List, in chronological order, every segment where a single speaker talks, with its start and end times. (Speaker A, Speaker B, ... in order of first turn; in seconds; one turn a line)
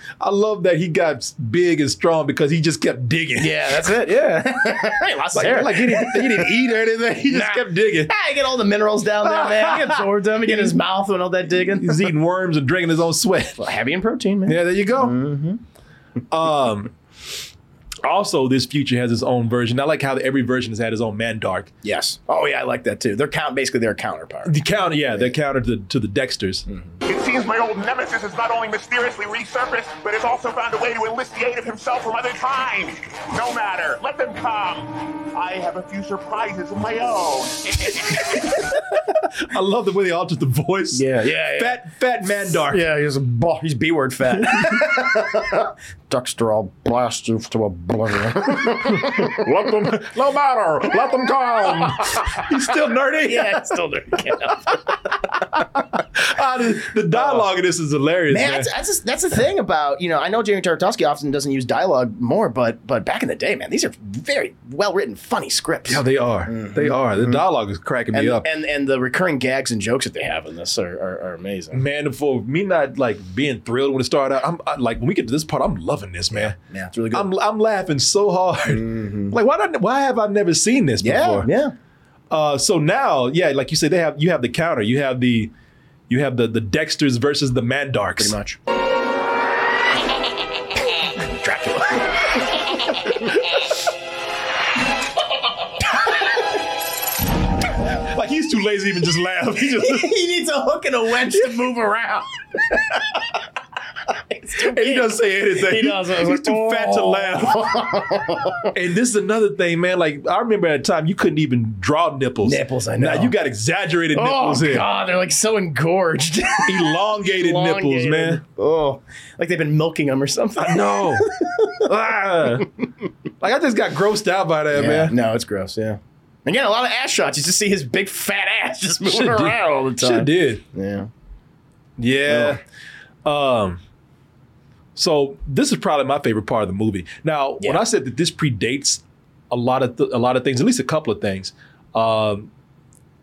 Speaker A: 0.2-4.6
Speaker B: 3.4-6.5
Speaker A: 5.3-8.1
Speaker B: 7.3-12.1
Speaker A: 9.2-10.8
Speaker A: 11.5-13.6
Speaker B: 13.6-15.6
Speaker A: 14.4-15.2
Speaker A: 16.3-16.9
Speaker A: 18.0-21.7
Speaker B: 21.8-24.6
Speaker A: 24.5-26.6
Speaker B: 26.7-26.9
Speaker C: 27.1-38.2
Speaker A: 38.5-42.9
Speaker B: 40.9-41.9
Speaker B: 42.5-50.6
Speaker A: 48.8-53.7
Speaker B: 51.4-52.5
Speaker B: 53.2-54.9
Speaker A: 55.4-58.7
Speaker B: 57.1-57.5
Speaker B: 58.3-67.4
Speaker A: 65.9-68.5
Speaker B: 68.1-71.8
Speaker A: 71.7-76.6
Speaker B: 76.3-77.3
Speaker A: 77.1-81.5
Speaker B: 78.7-79.3
Speaker B: 81.0-81.7
Speaker A: 82.3-85.5
Speaker A: 86.1-88.4
Speaker B: 88.2-88.6
Speaker B: 91.3-92.4
Speaker A: 97.9-100.1
Speaker B: 99.8-102.3
Speaker B: 104.1-108.7
Speaker A: 104.5-107.8
Speaker A: 108.7-114.9
Speaker B: 112.4-113.4
Speaker B: 114.1-121.8
Speaker A: 116.6-118.4
Speaker A: 120.6-122.7
Speaker A: 123.4-125.2
Speaker B: 124.7-131.1
Speaker A: 129.0-130.6
Speaker A: 132.0-132.6
Speaker B: 132.3-132.6
Speaker A: 133.2-133.8
Speaker A: 135.0-142.5